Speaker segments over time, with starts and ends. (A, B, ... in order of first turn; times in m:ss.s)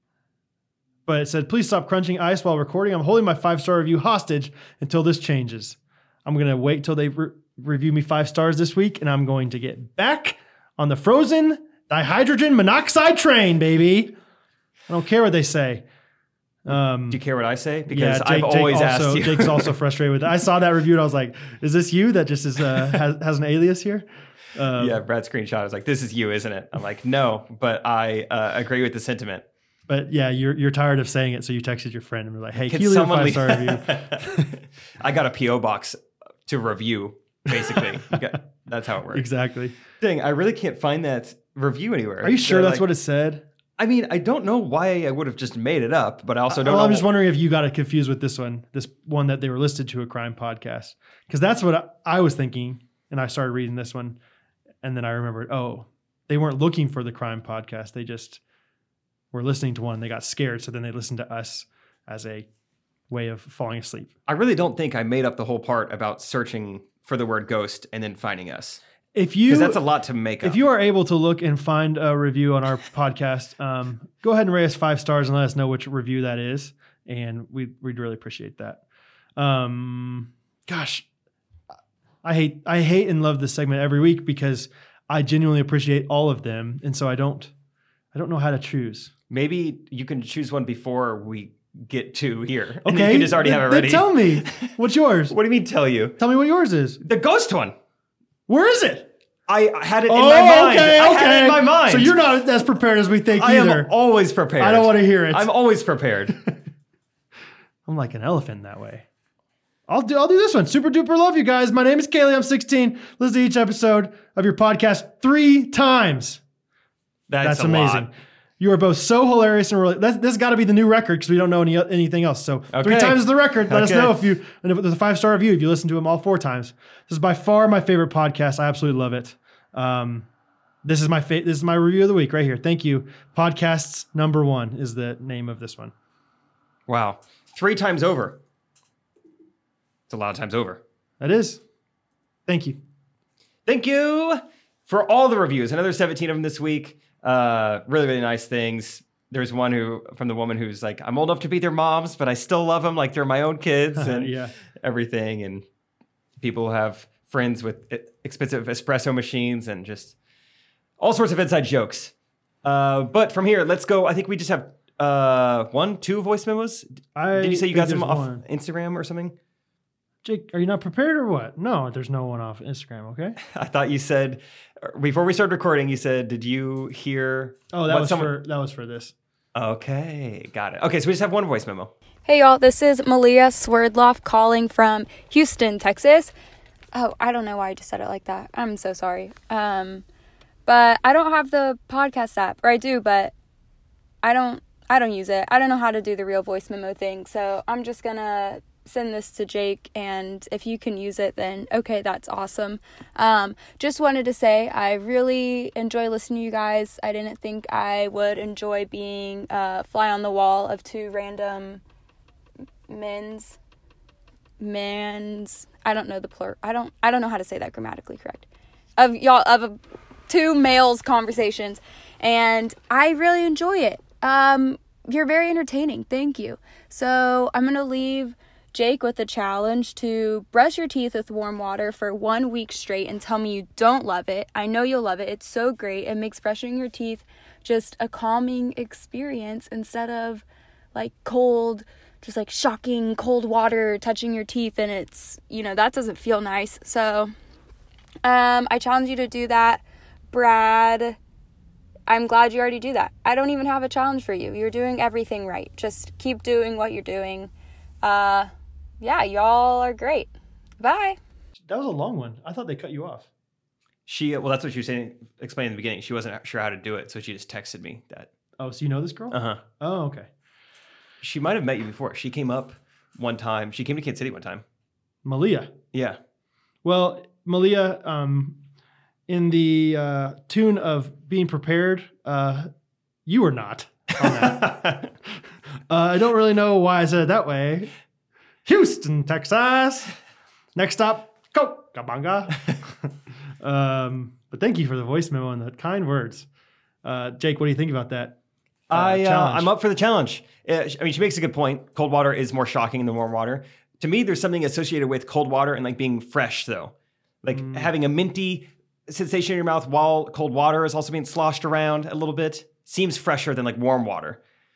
0:01.0-0:14.1 A
0:14.9-0:15.8 A
0:16.6-0:17.2 A
0:17.1-0:19.7 B
0:17.9-0:25.0 A
0:24.8-0:29.4 B
0:29.9-0:34.5 A
0:32.6-0:39.3 B
0:37.5-0:37.8 A
0:39.1-0:39.8 A
0:40.0-0:42.9 B
0:42.2-0:43.4 A
0:43.8-0:47.1 B
0:46.5-0:54.2 A
0:54.8-0:58.4 A
0:59.3-1:02.5 A
1:03.1-1:04.1 A
1:04.3-1:08.8 B
1:09.1-1:09.8 A
1:09.4-1:10.6 B
1:10.4-1:18.8 A
1:19.4-1:21.0 A
1:22.2-1:27.5 A
1:28.1-1:29.1 A
1:29.3-1:34.7 B
1:32.8-1:35.3 A
1:35.3-1:36.2 B
1:36.2-1:37.0 A
1:37.0-1:37.7 B
1:38.5-1:39.1 A
1:39.5-1:42.1 B
1:40.1-1:43.9 A
1:43.3-1:46.4 B
1:44.6-1:45.5 A
1:47.8-1:49.0 A
1:49.9-1:56.4 A
1:57.3-1:58.1 B
1:57.4-2:10.3 A
2:02.7-2:04.2 B
2:10.8-2:15.9 A
2:16.9-2:18.4 B
2:20.1-2:20.8 B
2:21.2-2:21.6 A
2:22.4-2:22.8 A
2:23.6-2:35.6 B
2:33.9-2:34.6 A
2:36.4-2:40.1 B
2:41.0-2:42.1 B
2:42.6-2:49.3 B
2:47.1-2:48.4 A
2:50.2-2:53.4 A
2:53.4-2:58.4 B
2:57.7-2:59.1 A
2:59.6-3:01.9 B
3:02.3-3:06.3 C
3:06.9-3:10.0 C
3:10.6-3:13.3 C
3:14.2-3:31.8 C
3:32.9-3:33.6 C
3:34.6-3:38.4 C
3:39.0-4:07.3 C
4:08.2-4:11.2 C
4:12.1-4:17.5 C
4:18.0-4:21.2 C
4:21.6-4:23.3 A
4:24.1-4:28.3 B
4:28.6-4:30.3 A
4:29.3-4:29.6 B
4:31.2-4:34.6 B
4:35.2-4:35.7 A
4:36.8-4:38.6 A
4:39.3-4:42.7 A
4:43.3-4:45.1 A
4:44.2-4:45.1 B
4:45.9-4:47.9 A
4:48.6-4:50.1 A
4:50.7-4:56.5 A
4:57.0-4:58.4 A
4:58.9-5:14.4 B
4:58.9-4:59.7 A
5:07.5-5:07.9 A